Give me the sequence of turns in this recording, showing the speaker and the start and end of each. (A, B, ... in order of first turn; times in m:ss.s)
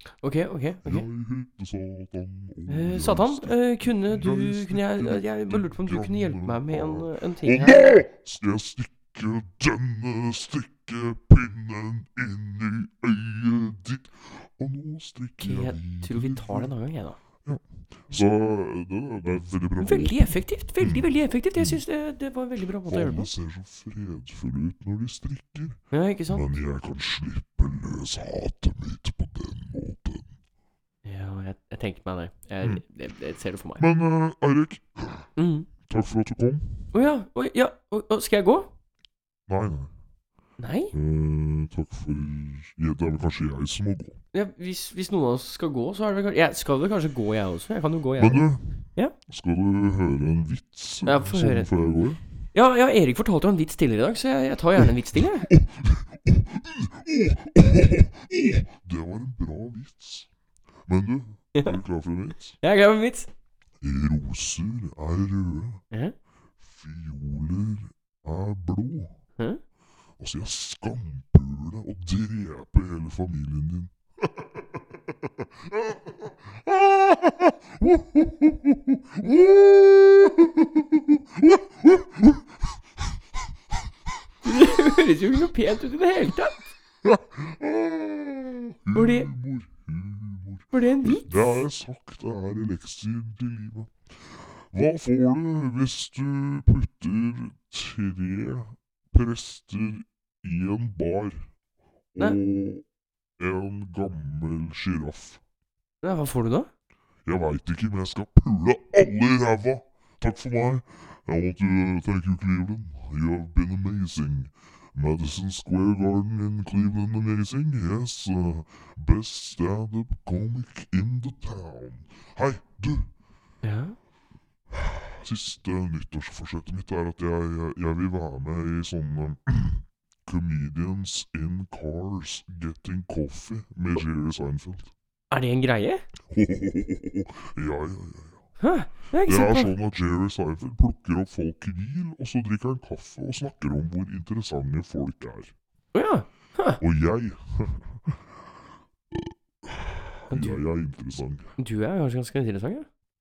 0:00.2-0:01.1 A
0:00.8-0:16.7 B
0:02.7-0:07.8 A
0:15.4-0:17.2 A
0:17.4-0:21.8 B
0:19.8-0:23.3 A
0:22.8-0:30.3 B
0:25.9-0:26.5 A
0:31.0-0:33.8 A
0:33.8-0:35.3 B
0:35.4-0:35.7 A
0:35.9-0:36.9 B
0:36.9-0:38.7 A
0:39.5-0:39.9 B
0:40.6-0:40.9 A
0:40.9-0:44.2 B
0:44.3-0:49.1 A
0:48.2-0:52.2 B
0:51.0-0:51.7 A
0:52.5-0:55.5 A
0:55.4-1:00.3 B
1:00.9-1:02.6 B
1:02.6-1:03.3 A
1:03.8-1:05.8 B
1:06.6-1:09.1 B
1:10.2-1:22.5 B
1:24.4-1:26.6 A
1:27.0-1:33.9 B
1:28.9-1:29.3 A
1:30.7-1:31.6 A
1:34.7-1:41.4 B
1:42.2-1:42.8 B
1:43.4-1:45.4 B
1:46.0-1:46.7 A
1:47.3-2:03.1 B
2:03.6-2:04.0 A
2:04.7-2:14.9 B
2:15.3-2:16.0 A
2:16.3-2:18.4 B
2:18.6-2:19.7 A
2:19.2-2:25.5 B
2:25.9-2:26.8 A
2:26.8-2:28.2 B
2:29.1-2:31.5 B
2:30.3-2:30.6 A
2:31.6-2:32.9 A